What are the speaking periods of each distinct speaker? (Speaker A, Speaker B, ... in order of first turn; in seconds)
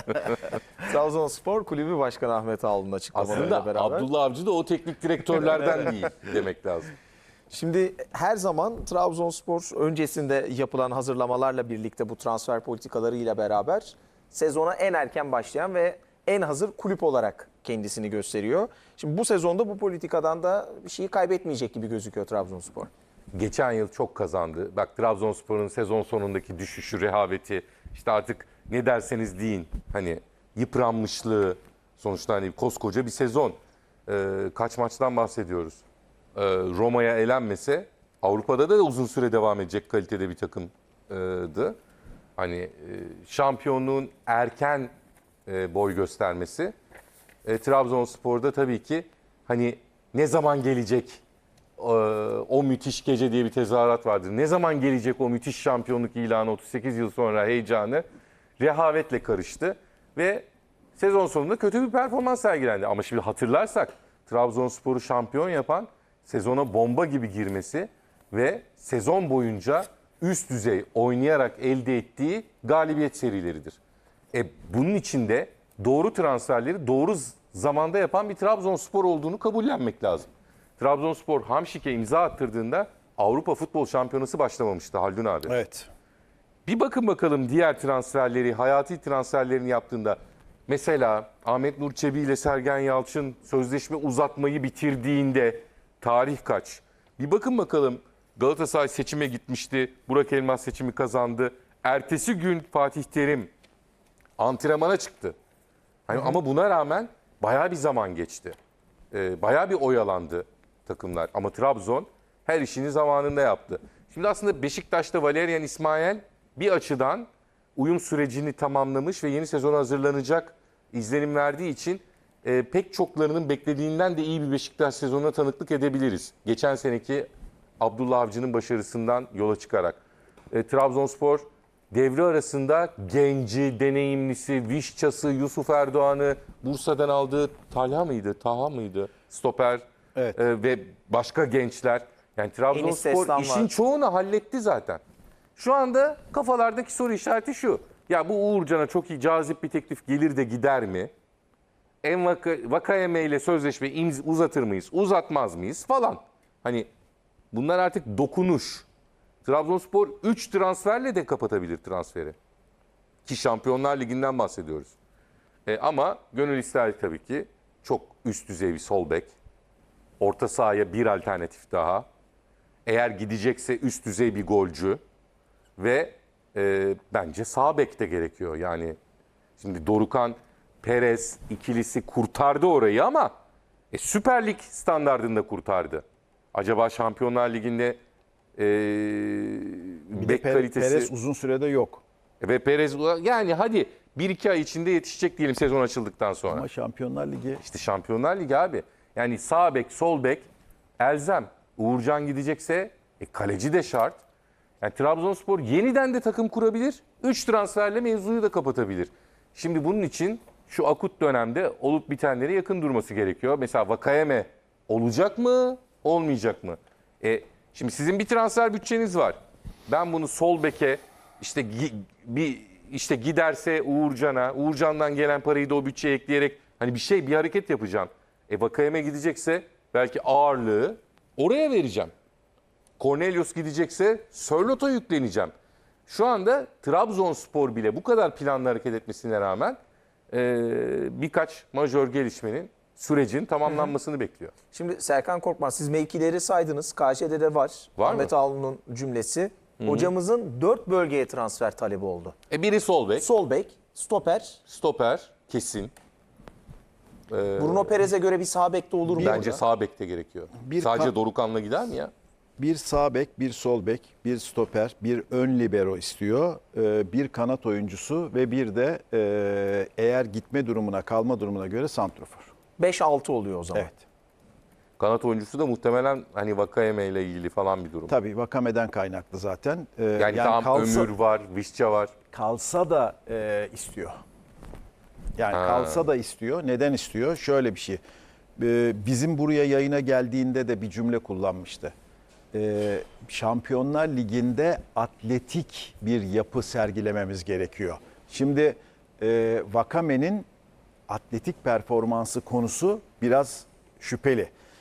Speaker A: 0.8-4.1, 7.5-22.9, 142.7-143.7, 244.7-252.3, 253.2-254.6, 257.6-259.6, 272.8-273.9
Speaker B: 3.1-6.9, 23.4-35.8, 36.4-41.8, 42.4-44.9, 45.5-46.7, 47.5-51.2, 51.8-58.0, 58.6-73.8, 74.3-85.5, 86.7-103.5, 104.4-105.3, 106.1-108.6, 109.1-127.3, 127.8-130.0, 130.5-139.8, 140.4-145.0, 145.6-151.1, 152.0-156.9, 157.5-158.9, 159.4-162.3, 163.2-164.9, 165.7-169.3, 170.2-172.1, 172.9-175.0, 175.8-179.0, 179.6-183.3, 183.9-188.0, 188.6-191.1, 192.4-196.7, 197.6-200.5, 201.0-204.2, 204.8-232.1, 233.0-235.5, 236.1-239.8, 240.3-244.5, 248.0-248.3, 249.8-250.1, 252.5-253.3, 254.7-255.9, 257.3-258.1, 259.1-262.1, 275.0-278.1, 280.2-282.1, 285.5-286.1
Speaker C: 85.5-85.9, 190.2-192.0, 196.5-197.6, 259.1-259.5, 260.6-261.1, 262.6-272.5, 273.8-274.0, 278.1-281.1, 282.3-284.1, 285.4-288.0, 288.6-291.9, 292.5-300.5, 301.1-304.5